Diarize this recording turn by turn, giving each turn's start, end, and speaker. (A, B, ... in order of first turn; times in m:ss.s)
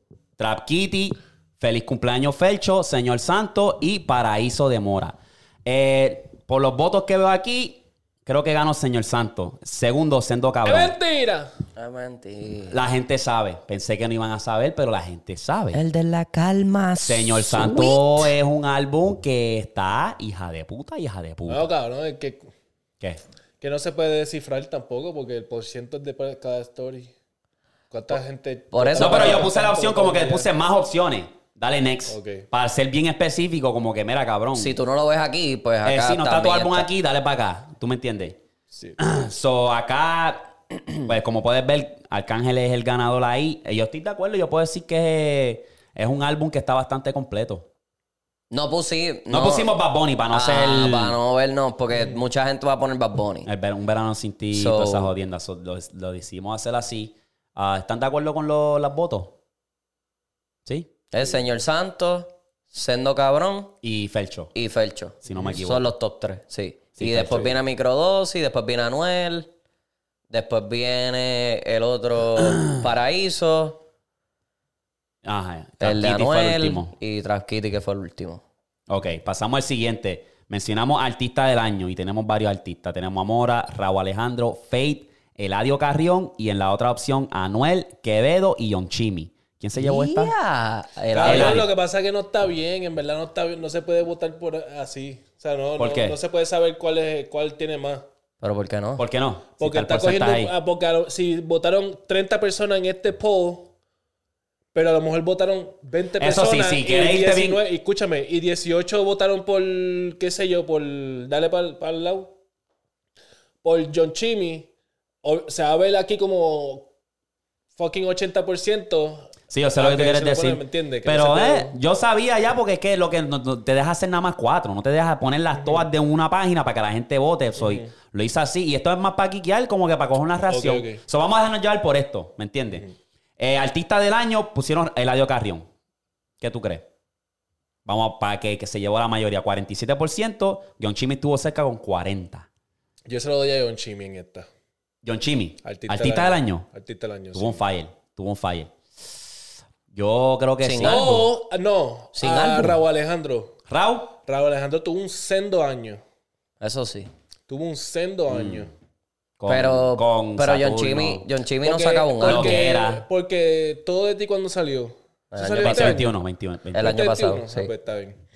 0:00.4-0:11.0 A
0:10.6-0:11.5 B
0:11.8-0:12.8 C
0:12.7-0:15.8 A
0:15.7-0:18.3 C
0:17.0-0:21.7 A
0:21.5-0:22.5 B
0:23.6-0:27.1 B
0:27.9-0:30.5 B
0:28.7-0:29.5 C
0:29.0-0:34.8 A
0:32.1-0:32.5 B
0:34.6-0:36.9 C
0:35.8-0:38.4 A
0:38.7-0:39.0 B
0:39.0-0:47.7 A
0:48.5-0:49.8 C
0:49.3-0:51.2 A
0:50.3-0:53.5 C
0:53.4-0:59.4 A
0:54.5-0:55.1 C
1:01.1-1:03.8 C
1:03.8-1:04.5 A
1:04.6-1:09.5 C
1:05.2-1:05.9 A
1:07.0-1:07.6 A
1:10.3-1:13.8 C
1:15.2-1:16.9 A
1:15.8-1:18.4 C
1:18.9-1:30.3 A
1:29.7-1:31.7 C
1:31.1-1:38.0 B
1:31.2-1:31.7 A
1:35.8-1:36.2 A
1:38.4-1:39.0 C
1:39.0-1:40.5 A
1:39.6-1:43.7 B
1:44.7-1:52.3 B
1:46.2-1:47.6 A
1:53.6-1:54.7 B
1:55.2-1:56.9 B
1:57.8-2:01.7 B
1:59.5-2:12.9 A
2:05.6-2:05.9 B
2:07.6-2:07.9 B
2:10.5-2:11.0 B
2:13.4-2:15.7 A
2:16.4-2:16.9 A
2:17.8-2:22.5 A
2:23.1-2:24.5 B
2:25.0-2:26.7 A
2:25.6-2:27.6 B
2:27.3-2:28.7 A
2:29.9-2:31.3 A
2:30.6-2:31.2 C
2:30.8-2:33.6 B
2:32.2-2:32.8 C
2:33.7-2:34.2 A
2:34.2-2:36.0 B
2:36.6-2:37.1 C
2:37.5-2:38.7 B
2:38.3-2:38.7 A
2:39.4-2:41.3 A
2:39.5-2:42.6 C
2:41.6-2:46.1 B
2:42.2-2:43.0 A
2:45.3-2:46.1 C
2:45.6-2:47.0 A
2:46.7-2:47.7 C
2:46.8-2:48.2 B